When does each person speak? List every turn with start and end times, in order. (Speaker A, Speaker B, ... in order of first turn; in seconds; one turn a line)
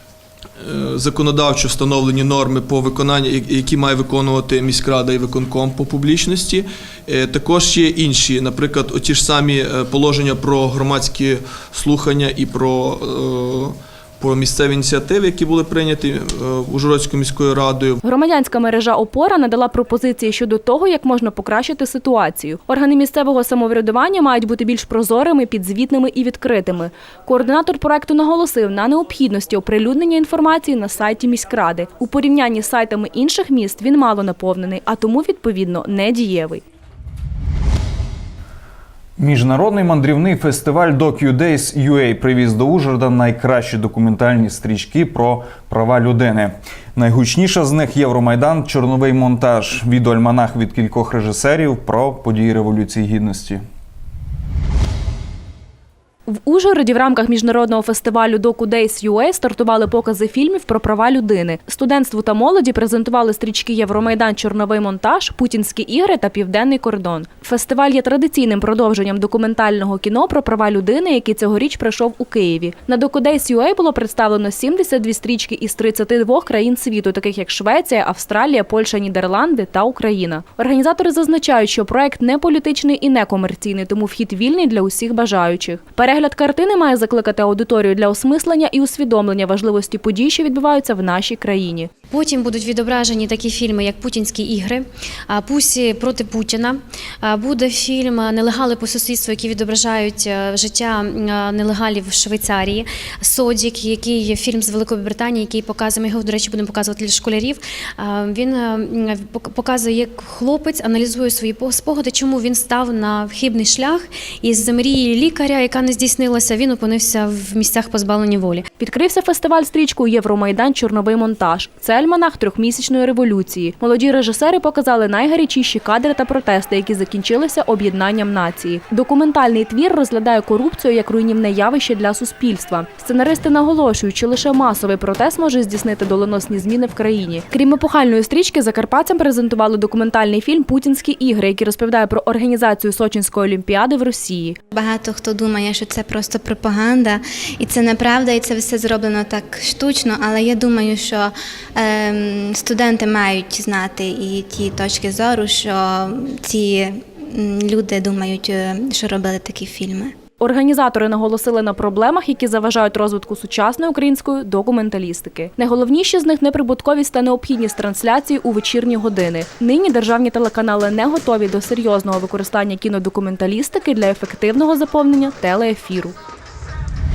Speaker A: 0.6-18.0
Speaker B: 18.0-36.6
Speaker C: 39.2-53.6
Speaker B: 56.3-91.9
Speaker D: 92.1-118.7
Speaker B: 118.8-144.6
Speaker E: 144.7-160.2
Speaker B: 160.4-176.2